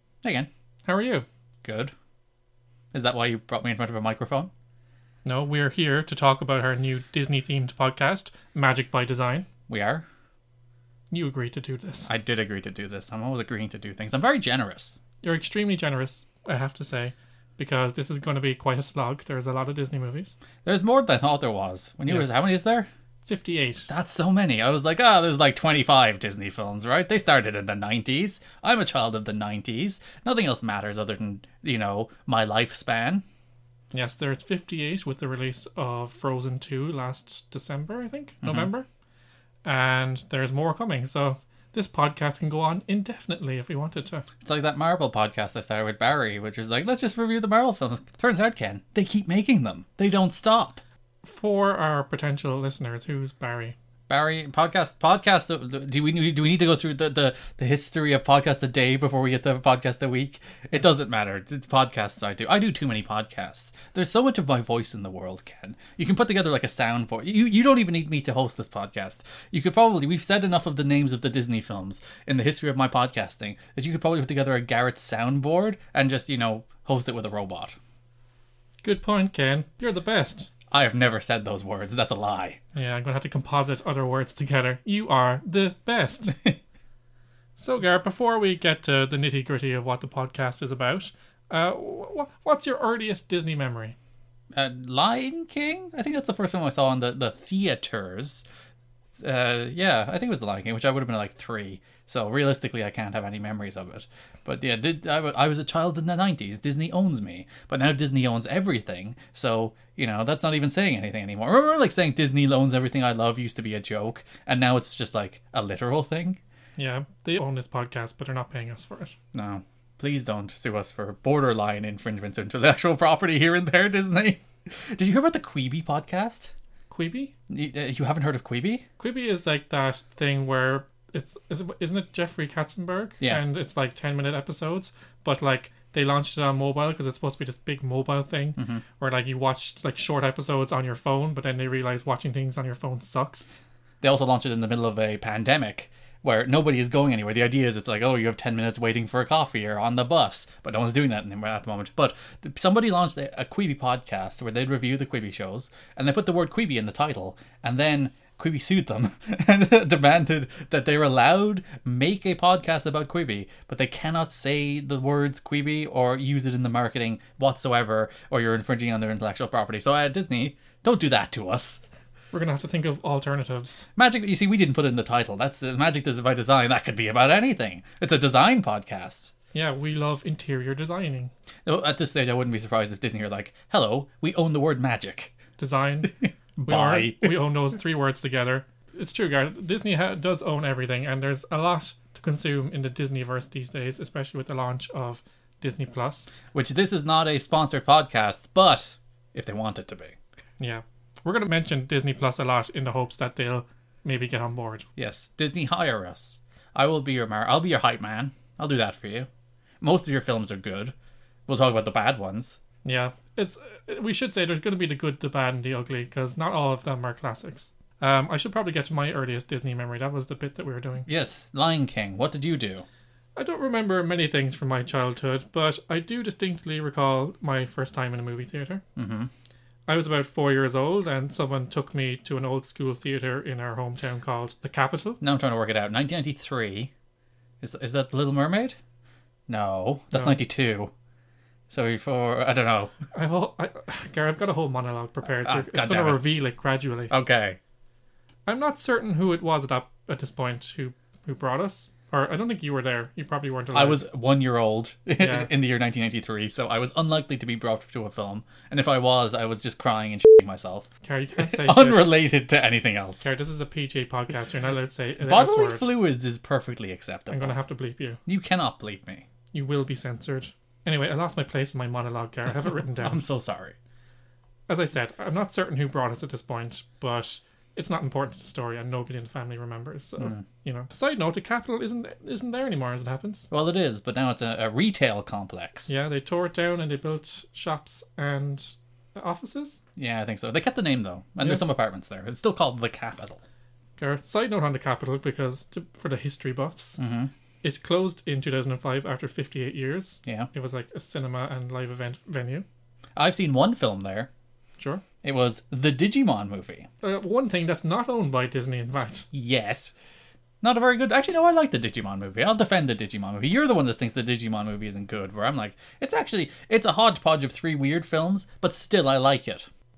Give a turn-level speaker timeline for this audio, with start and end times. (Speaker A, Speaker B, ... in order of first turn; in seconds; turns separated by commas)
Speaker A: 0.2-0.5, Speaker B: 0.9-1.2, Speaker A: 1.6-1.9, Speaker A: 2.9-4.5, Speaker B: 5.2-9.5, Speaker A: 9.7-10.1, Speaker B: 11.1-12.1, Speaker A: 12.1-15.0, Speaker B: 15.2-20.4, Speaker A: 20.6-22.9, Speaker B: 23.3-23.9, Speaker A: 23.9-33.2, Speaker B: 33.9-38.9, Speaker A: 38.4-38.7, Speaker B: 39.6-44.3, Speaker A: 44.4-50.8, Speaker B: 51.2-53.8, Speaker A: 54.1-77.8, Speaker B: 78.8-80.5, Speaker A: 80.7-82.6, Speaker B: 82.8-86.3, Speaker B: 87.6-94.0, Speaker A: 94.5-98.5, Speaker A: 99.2-116.4, Speaker B: 116.8-119.1, Speaker A: 119.3-126.5, Speaker B: 126.9-127.3, Speaker A: 127.5-128.8, Speaker B: 129.0-143.5, Speaker A: 138.6-138.8, Speaker A: 144.0-171.8, Speaker B: 172.3-173.9, Speaker A: 174.0-179.3, Speaker B: 179.5-181.3, Speaker A: 181.7-185.3, Speaker B: 185.6-196.3, Speaker A: 186.7-187.4, Speaker A: 196.5-200.2, Speaker B: 200.6-204.9, Speaker A: 205.0-209.3, Speaker A: 209.8-210.9, Speaker A: 211.5-212.6, Speaker B: 212.8-221.1, Speaker A: 221.1-222.9, Speaker B: 223.4-228.8, Speaker A: 229.0-229.3, Speaker B: 229.9-235.2, Speaker A: 235.2-236.9, Speaker A: 237.6-238.8, Speaker A: 239.5-240.9, Speaker B: 240.1-240.4, Speaker A: 241.7-242.9, Speaker B: 243.1-247.1, Speaker A: 245.4-246.2, Speaker A: 247.1-247.6, Speaker B: 248.5-254.0, Speaker A: 253.7-263.3, Speaker B: 255.2-255.5, Speaker B: 261.0-262.1, Speaker B: 263.2-265.9, Speaker A: 265.2-267.6, Speaker B: 267.3-268.2, Speaker A: 268.3-269.2, Speaker B: 269.5-273.2, Speaker A: 273.0-273.8, Speaker B: 274.7-283.5, Speaker A: 280.2-280.4, Speaker A: 283.5-285.9, Speaker B: 285.9-289.8, Speaker A: 290.0-293.4, Speaker B: 294.0-297.0, Speaker A: 297.0-297.3, Speaker B: 297.6-302.6, Speaker A: 303.2-304.3, Speaker A: 305.2-306.9, Speaker B: 307.0-309.3, Speaker A: 309.3-309.9, Speaker A: 310.6-319.7